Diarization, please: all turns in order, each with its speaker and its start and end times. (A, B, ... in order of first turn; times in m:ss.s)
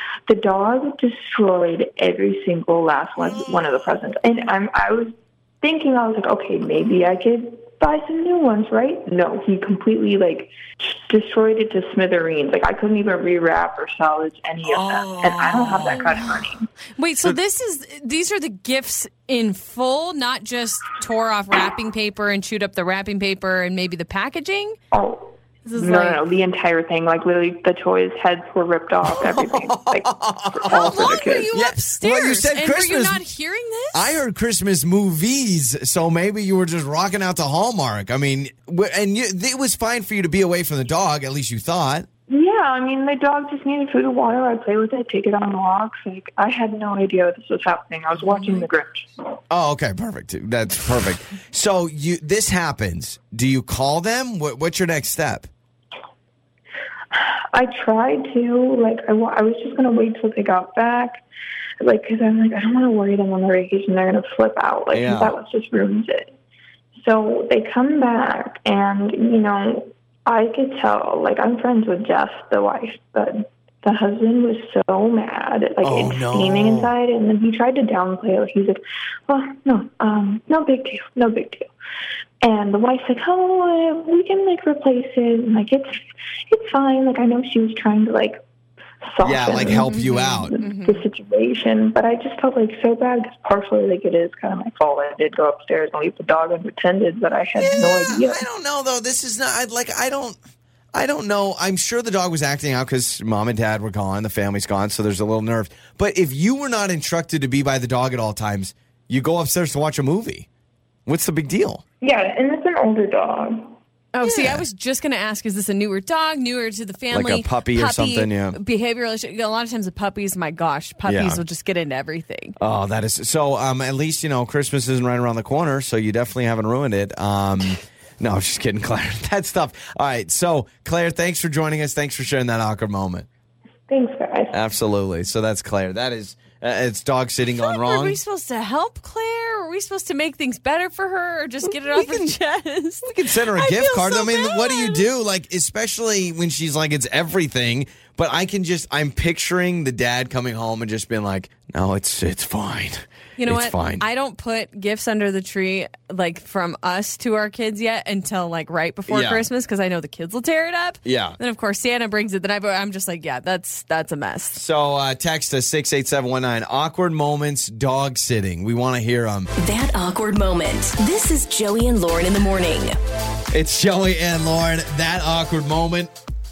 0:00.3-0:16.7 A
0:14.7-0:16.1 B
0:17.0-0:24.8 C
0:24.9-0:31.5 A
0:25.6-0:26.2 C
0:29.1-0:33.2 B
0:30.7-0:34.2 C
0:33.9-0:42.1 B
0:42.3-0:49.1 A
0:48.2-0:48.6 C
0:49.5-0:55.5 B
0:57.1-1:01.2 A
1:01.8-1:06.3 A
1:04.9-1:05.4 B
1:06.9-1:21.7 A
1:15.8-1:16.9 B
1:22.4-1:28.4 A
1:29.0-1:38.4 A
1:29.2-1:30.5 B
1:29.6-1:31.0 C
1:37.6-1:40.4 B
1:40.9-1:50.5 B
1:51.0-1:51.8 B
1:52.0-1:53.8 A
1:54.1-2:02.6 C
1:54.2-1:54.6 B
1:57.1-1:58.6 B
2:01.0-2:01.4 B
2:02.6-2:13.3 B
2:13.9-2:14.5 A
2:14.5-2:18.2 B
2:17.6-2:25.1 C
2:21.9-2:22.4 B
2:23.0-2:34.0 B
2:33.4-2:44.6 C
2:39.1-2:39.5 B
2:41.0-2:41.4 B
2:44.5-2:49.5 B
2:49.6-2:53.0 D
2:53.5-2:56.1 B